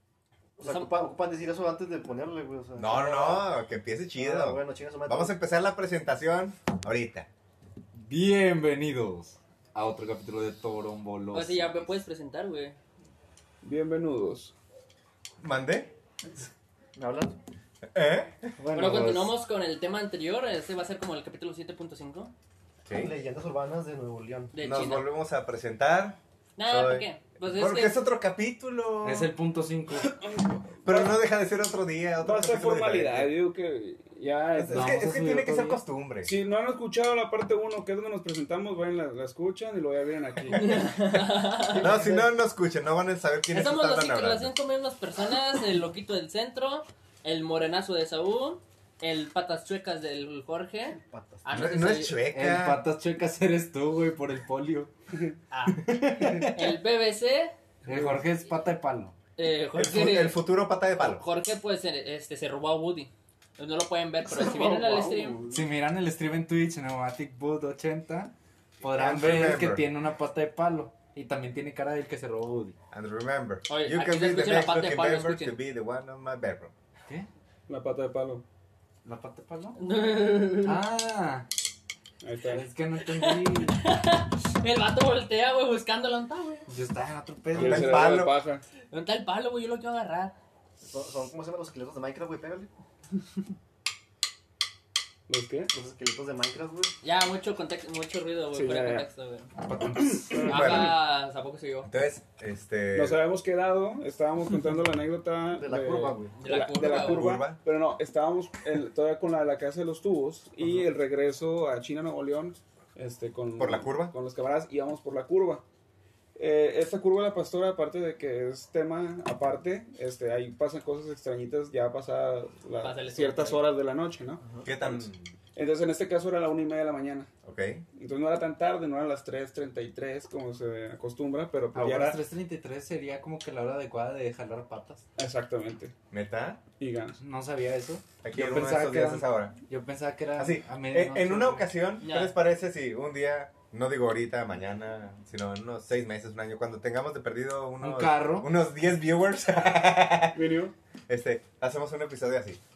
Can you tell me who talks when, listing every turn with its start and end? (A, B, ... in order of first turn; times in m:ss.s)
0:00.6-0:03.5 A
0:00.6-0:01.1 B
0:02.8-0:07.3 C
0:04.2-0:05.3 A
0:07.9-0:11.9 D
0:11.3-0:12.8 B
0:13.6-0:14.5 E
0:15.4-0:15.9 C
0:17.0-0:17.4 A
0:17.9-0:18.5 C
0:18.6-0:19.3 D
0:18.7-0:22.3 B
0:22.9-0:23.2 C
0:22.9-0:24.6 A
0:24.5-0:25.1 B
0:24.6-0:29.3 C
0:26.6-0:28.0 B
0:29.0-0:30.1 D
0:30.0-0:31.2 E
0:30.8-0:33.3 C
0:32.2-0:35.0 E
0:34.6-0:36.3 C
0:34.7-0:35.8 D
0:36.2-0:40.8 E
0:40.5-0:41.9 B
0:40.5-0:44.5 C
0:41.6-0:42.4 A
0:43.5-0:52.2 B
0:51.0-0:51.5 A
0:51.5-0:52.8 C
0:52.3-0:54.9 D
0:55.5-0:57.5 B
0:55.7-0:56.8 D
0:57.8-0:58.2 E
0:57.9-0:59.2 D
0:59.4-1:00.4 B
0:59.7-1:01.3 C
1:01.0-1:05.4 B
1:04.3-1:05.6 E
1:05.5-1:12.8 D
1:08.9-1:09.9 C
1:12.9-1:16.7 C
1:13.7-1:15.6 B
1:17.7-1:18.4 E
1:19.0-1:19.8 D
1:19.8-1:20.8 B
1:20.6-1:21.5 D
1:22.2-1:22.7 E
1:22.4-1:23.8 D
1:23.1-1:26.7 B
1:26.7-1:28.1 D
1:27.5-1:28.4 C
1:27.6-1:28.6 E
1:28.9-1:30.4 B
1:30.8-1:32.7 A
1:35.3-1:35.7 E
1:35.7-1:36.9 A
1:37.0-1:39.5 B
1:38.5-1:39.0 E
1:39.7-1:40.4 D
1:39.8-1:40.9 E
1:40.4-1:41.0 C
1:40.5-1:41.9 B
1:41.8-1:43.2 C
1:42.9-1:55.6 E
1:45.6-1:46.4 A
1:46.4-1:47.3 B
1:46.8-1:47.6 C
1:53.6-1:54.1 C
1:56.4-2:07.3 E
2:02.8-2:03.6 B
2:04.4-2:04.7 A
2:04.6-2:05.3 C
2:07.4-2:07.8 C
2:08.0-2:12.2 E
2:11.7-2:15.0 D
2:15.2-2:15.9 E
2:16.1-2:16.6 C
2:16.8-2:17.2 E
2:17.2-2:21.7 D
2:18.2-2:19.6 C
2:20.4-2:30.4 C
2:22.0-2:22.4 B
2:27.8-2:28.5 D
2:30.4-2:30.7 E
2:31.1-2:32.6 C